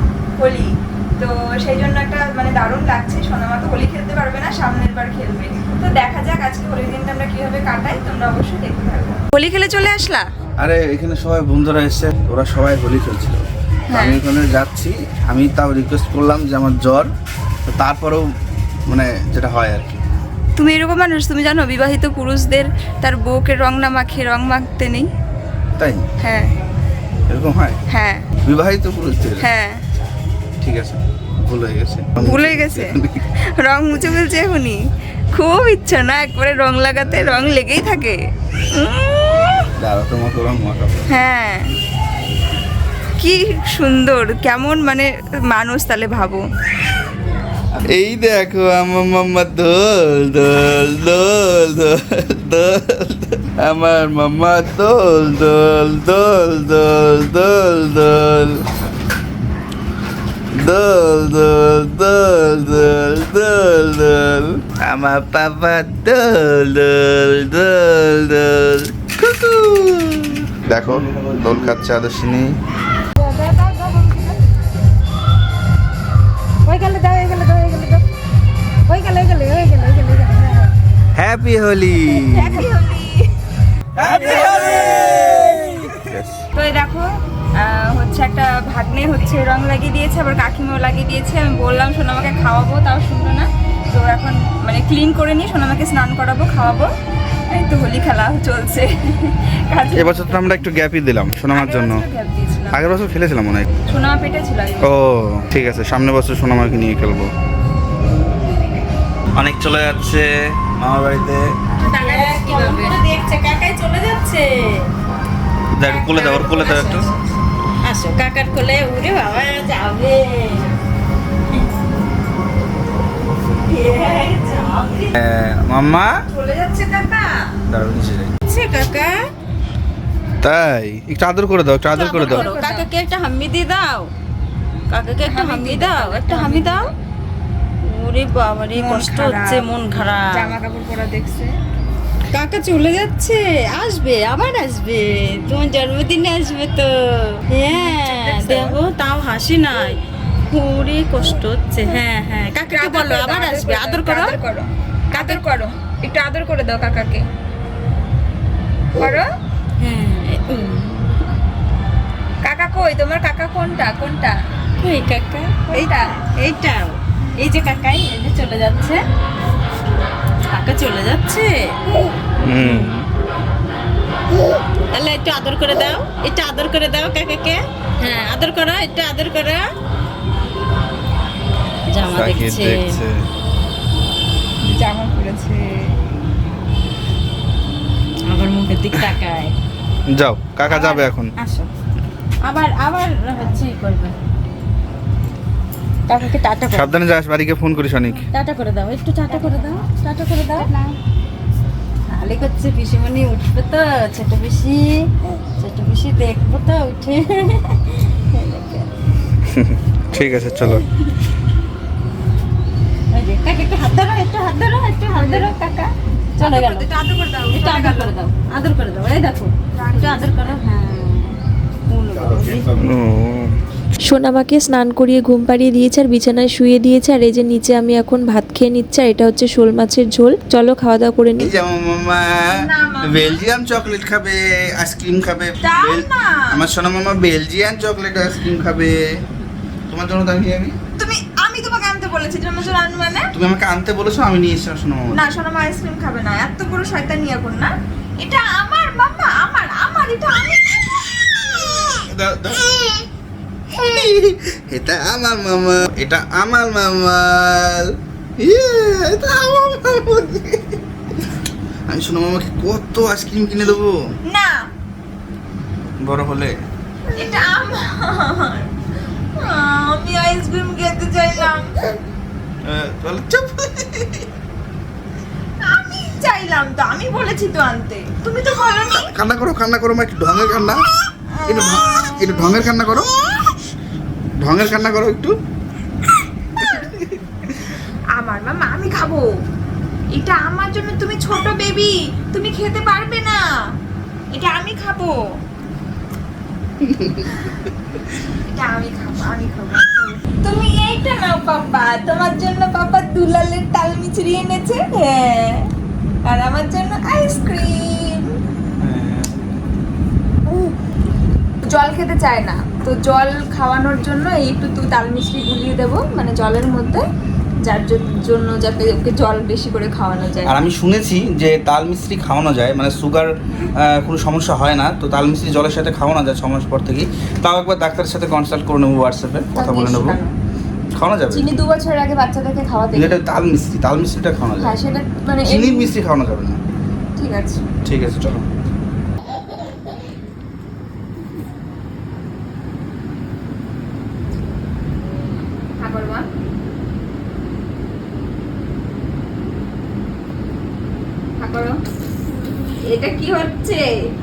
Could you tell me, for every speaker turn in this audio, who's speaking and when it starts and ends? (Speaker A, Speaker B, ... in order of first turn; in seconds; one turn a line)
Speaker A: 0.4-10.2
Speaker B: 10.6-17.1
Speaker A: 13.9-14.2
Speaker B: 17.7-18.2
Speaker B: 18.9-20.0
Speaker A: 20.6-25.1
Speaker B: 25.8-26.0
Speaker A: 26.2-26.5
Speaker B: 27.3-27.8
Speaker A: 27.9-28.3
Speaker B: 28.4-29.4
Speaker A: 29.4-29.8
Speaker B: 30.6-33.2
Speaker A: 32.2-34.8
Speaker A: 35.3-38.2
Speaker B: 37.0-37.5
Speaker A: 38.8-39.3
Speaker B: 39.8-41.0
Speaker A: 41.1-41.7
Speaker A: 43.2-46.4
Speaker B: 47.8-58.6
Speaker B: 60.6-72.5
Speaker C: 73.2-74.4
Speaker C: 76.7-78.0
Speaker C: 78.9-80.7
Speaker B: 81.2-82.7
Speaker A: 82.2-83.2
Speaker B: 84.0-86.4
Speaker A: 84.2-85.0
Speaker C: 84.3-85.8
Speaker A: 86.5-87.1
Speaker A: 87.6-96.9
Speaker A: 97.5-100.7
Speaker B: 99.9-102.0
Speaker A: 101.5-102.8
Speaker B: 102.7-103.7
Speaker A: 103.9-104.9
Speaker B: 104.8-107.3
Speaker B: 109.4-111.5
Speaker A: 111.8-112.9
Speaker C: 111.8-114.9
Speaker B: 115.7-117.1
Speaker A: 115.8-117.2
Speaker C: 117.8-120.7
Speaker C: 123.7-125.1
Speaker A: 123.7-124.9
Speaker B: 125.2-126.1
Speaker A: 126.3-127.5
Speaker B: 127.7-128.3
Speaker C: 128.5-129.2
Speaker B: 130.4-132.5
Speaker C: 131.9-134.1
Speaker A: 132.2-132.9
Speaker C: 134.9-136.8
Speaker A: 135.2-136.8
Speaker C: 137.8-140.6
Speaker A: 138.8-141.5
Speaker C: 142.3-146.9
Speaker C: 147.5-150.0
Speaker A: 147.7-148.8
Speaker C: 150.5-154.3
Speaker A: 152.7-157.2
Speaker C: 155.2-155.4
Speaker A: 159.0-159.2
Speaker C: 159.8-161.1
Speaker A: 162.4-164.4
Speaker C: 164.8-169.0
Speaker A: 165.7-166.2
Speaker C: 170.5-171.5
Speaker B: 172.4-173.1
Speaker C: 172.6-172.9
Speaker C: 174.9-179.6
Speaker C: 181.9-183.0
Speaker B: 182.1-183.2
Speaker A: 184.6-185.7
Speaker C: 188.3-189.5
Speaker B: 190.1-191.3
Speaker C: 190.6-191.7
Speaker C: 192.4-194.1
Speaker C: 196.1-196.9
Speaker B: 196.7-198.2
Speaker C: 198.3-200.9
Speaker C: 202.1-208.9
Speaker B: 209.5-210.8
Speaker C: 213.1-216.9
Speaker A: 215.1-215.5
Speaker A: 216.4-218.2
Speaker C: 217.5-222.9
Speaker A: 219.7-220.6
Speaker B: 222.2-223.6
Speaker D: 224.1-231.5
Speaker B: 231.4-239.0
Speaker A: 232.5-233.4
Speaker A: 235.6-236.6
Speaker B: 239.9-240.7
Speaker A: 240.9-243.3
Speaker B: 243.3-245.2
Speaker A: 245.1-252.0
Speaker B: 252.0-253.0
Speaker B: 253.7-260.8
Speaker B: 261.9-263.9
Speaker A: 264.2-264.7
Speaker B: 266.0-266.6
Speaker A: 267.1-268.7
Speaker A: 269.4-271.9
Speaker B: 272.6-274.3
Speaker A: 275.6-279.1
Speaker B: 278.9-280.9
Speaker A: 281.3-282.7
Speaker B: 281.4-283.1
Speaker B: 284.4-285.3
Speaker A: 286.6-286.9
Speaker B: 286.6-287.2
Speaker A: 288.2-289.3
Speaker A: 290.1-293.4
Speaker A: 294.3-295.2
Speaker B: 296.8-297.3
Speaker A: 297.2-297.6
Speaker A: 298.4-305.7
Speaker A: 306.2-308.4
Speaker B: 308.8-309.6
Speaker A: 310.5-310.7
Speaker A: 311.7-317.1
Speaker A: 317.6-320.6
Speaker B: 320.4-330.2
Speaker A: 329.5-330.3
Speaker B: 330.9-331.5
Speaker A: 331.3-333.2
Speaker B: 332.9-334.8
Speaker A: 334.6-335.9
Speaker B: 335.5-336.6
Speaker A: 337.2-337.6
Speaker B: 337.9-338.4
Speaker A: 345.8-346.3
Speaker A: 351.4-351.8
Speaker A: 352.6-353.9